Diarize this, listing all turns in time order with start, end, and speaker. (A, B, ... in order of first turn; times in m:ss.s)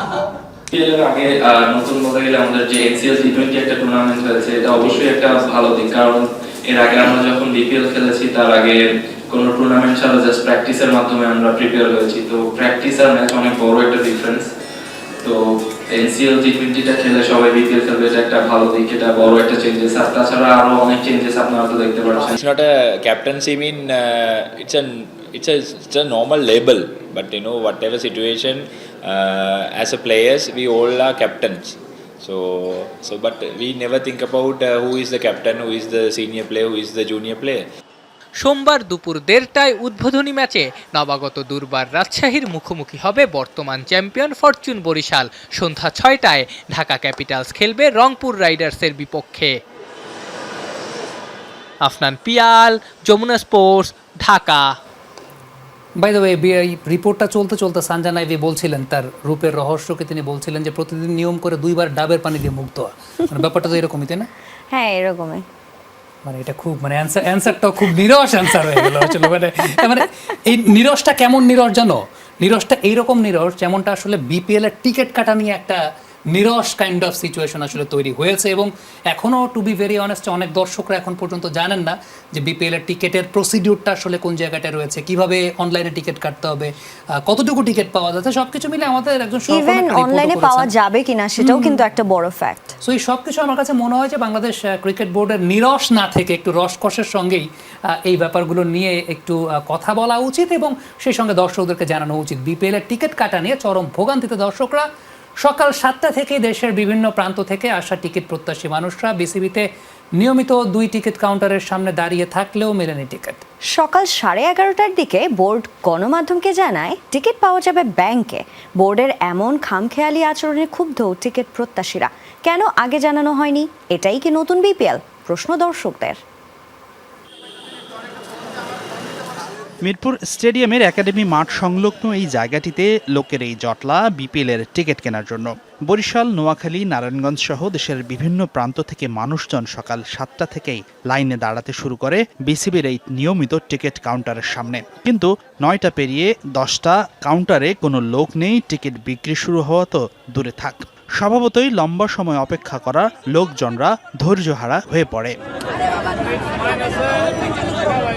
0:00.7-0:14.5 A
0:15.2-0:22.3 A
0:22.1-0:37.7 B
0:38.4-0:49.6 C
0:51.8-0:54.7 C
0:56.0-1:04.3 D
1:04.7-1:05.4 E
1:06.3-1:15.8 D
1:16.3-1:26.7 D
1:27.2-1:30.7 D
1:29.5-1:32.7 E
1:31.4-1:31.8 D
1:32.8-1:44.8 D
1:45.4-1:49.6 D
1:50.2-1:53.4 D
1:53.7-2:06.2 E
2:09.8-2:35.4 F